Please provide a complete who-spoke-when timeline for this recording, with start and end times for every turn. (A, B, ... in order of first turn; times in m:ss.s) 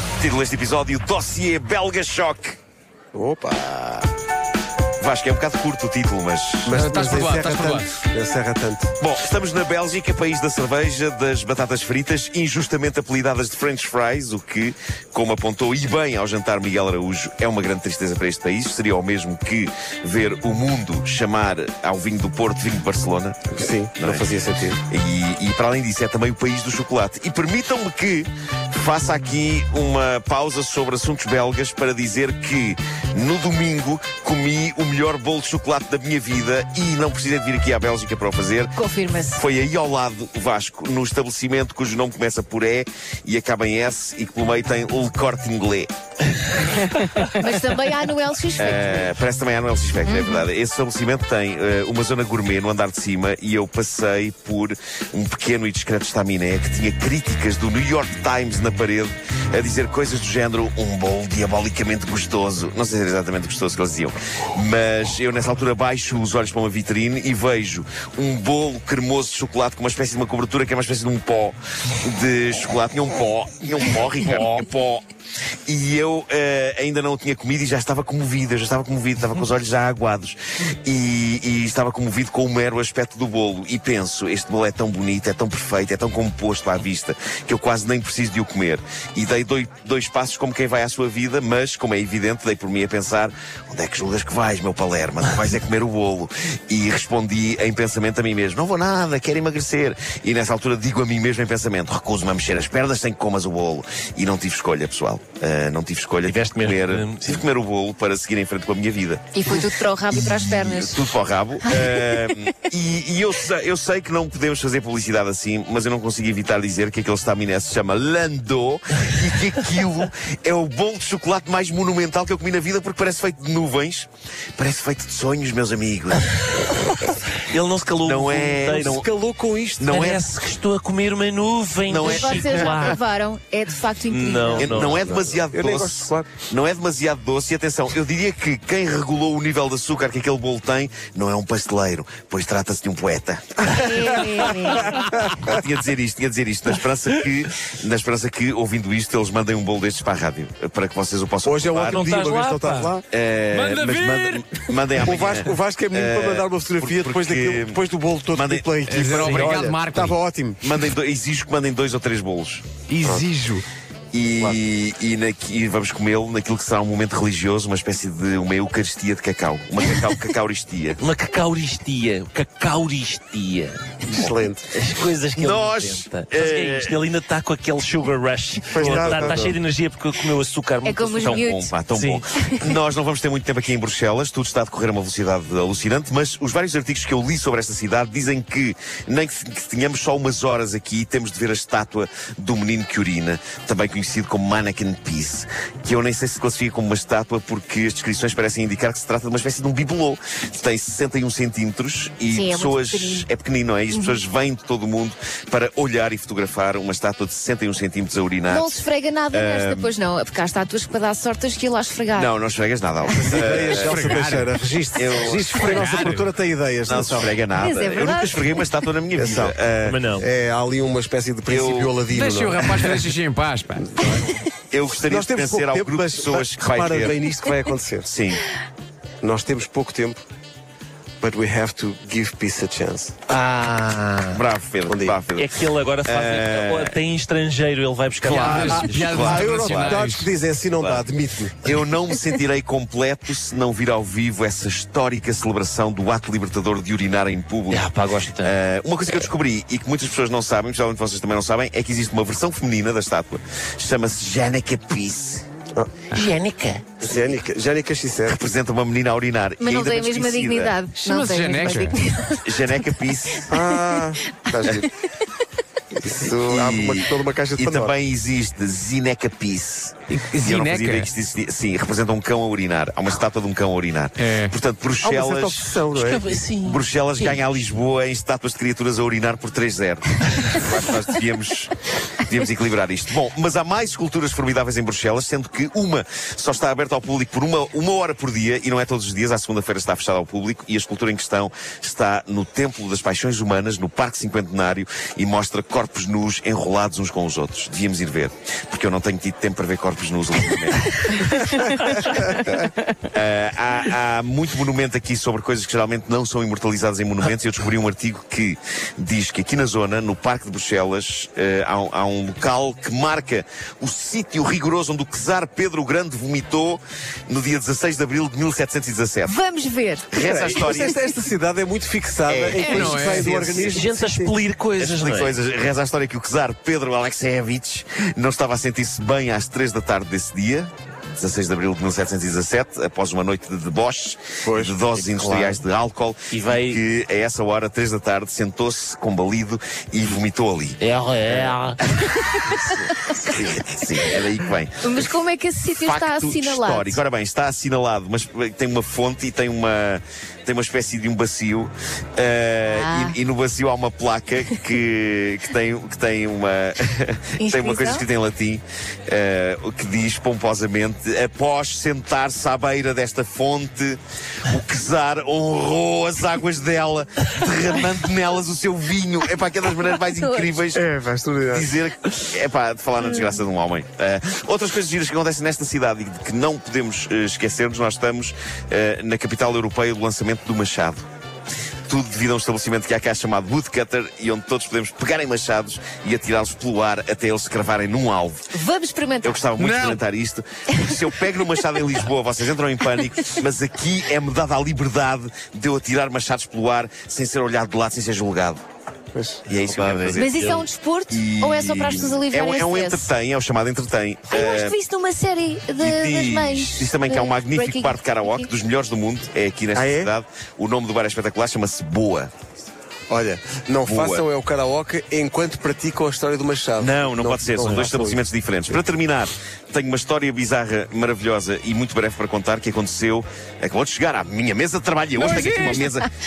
0:00.2-0:02.6 A
0:03.1-0:04.1 B
0:05.0-0:06.8 A
0:06.6-0:08.9 B
0:06.7-0:07.9 C
0:09.0-0:24.3 A
0:23.5-0:24.8 B
0:24.9-0:38.8 A
0:38.8-0:39.4 D
0:39.4-0:45.9 A
0:47.2-0:49.1 D
0:48.6-1:15.0 A
0:50.0-0:50.4 D
1:15.7-2:06.2 A
1:46.2-1:47.4 E
1:49.3-1:51.1 D
2:07.4-2:09.0 E
2:08.0-2:09.0 A
2:08.8-2:09.9 B
2:09.8-2:10.3 A
2:09.9-2:13.0 E
2:11.8-2:12.9 A
2:12.0-2:14.8 D
2:14.1-2:15.1 E
2:14.6-2:32.1 A
2:14.8-2:16.3 B
2:23.7-2:24.9 D
2:24.2-2:25.6 B
2:31.4-2:33.0 B
2:31.9-2:33.0 E
2:33.1-2:37.8 A
2:33.5-2:34.6 C
2:35.0-2:40.7 B
2:38.3-2:39.6 A
2:38.8-2:40.2 C
2:40.6-2:42.7 A
2:42.9-2:43.3 C
2:43.0-2:43.6 B
2:44.1-2:51.0 A
2:51.0-3:02.2 E
2:54.1-2:54.6 B
2:55.3-2:57.0 A
2:58.7-2:59.6 B
2:58.8-2:59.5 A
3:00.8-3:01.7 D
3:01.2-3:28.8 A
3:02.3-3:02.8 D
3:22.3-3:23.3 D
3:23.9-3:24.2 D
3:28.5-3:32.3 D
3:29.3-3:29.9 A
3:32.2-3:33.9 A
3:33.1-3:37.3 B
3:33.4-3:34.5 C
3:35.0-3:36.0 A
3:35.6-3:36.3 C
3:36.8-3:40.0 A
3:37.6-3:38.6 D
3:39.2-3:39.5 B
3:39.8-3:40.2 E
3:40.2-3:43.1 B
3:41.5-3:42.0 A
3:42.1-3:43.8 C
3:43.8-3:44.3 B
3:44.7-3:47.2 A
3:44.9-3:48.1 B
3:48.0-3:48.4 A
3:49.2-3:50.2 B
3:51.2-3:53.1 B
3:53.3-3:54.4 E
3:54.3-3:57.0 A
3:54.8-3:55.2 B
3:55.4-3:59.1 E
3:58.2-4:00.3 C
3:58.3-4:01.6 B
3:58.4-4:00.0 A
4:00.8-4:01.0 A
4:01.6-4:07.8 A
4:07.7-4:08.5 E
4:08.4-4:15.4 A
4:16.1-4:16.9 E
4:17.0-4:18.5 B
4:18.2-4:20.8 A
4:19.6-4:22.8 D
4:21.0-4:22.0 C
4:22.4-4:23.5 A
4:23.5-4:24.8 B
4:24.3-4:25.0 D
4:25.9-4:27.9 B
4:26.4-4:35.7 A
4:30.1-4:31.1 C
4:34.2-4:34.5 C
4:35.0-4:36.4 B
4:35.9-4:37.4 E
4:36.6-5:19.4 A
5:19.2-5:20.1 D
5:20.1-5:21.0 A
5:20.1-5:24.4 B
5:22.3-5:23.9 A
5:22.6-5:23.4 C
5:23.7-5:25.4 E
5:24.8-5:45.1 A
5:34.4-5:34.8 B
5:34.9-5:35.6 E
5:36.3-5:36.8 E
5:40.8-5:41.8 E
5:42.3-5:43.4 D
5:44.8-5:47.0 D
5:45.8-6:10.8 A
5:52.6-5:53.2 D
5:57.4-5:58.0 D
6:10.2-6:10.6 D
6:10.7-6:11.8 B
6:11.5-6:21.0 A
6:13.0-6:13.4 D
6:21.9-6:28.4 A
6:28.5-6:29.5 D
6:29.2-6:38.6 A
6:29.6-6:30.0 C
6:39.1-6:39.4 B
6:39.5-6:40.5 A
6:39.5-6:40.6 E
6:40.2-6:43.1 D
6:41.1-6:44.8 A
6:44.3-6:48.5 D
6:45.8-6:52.3 A
6:49.7-6:50.1 B
6:53.1-6:58.8 B
6:53.8-6:54.2 A
6:56.8-7:06.1 A
7:05.1-7:05.8 C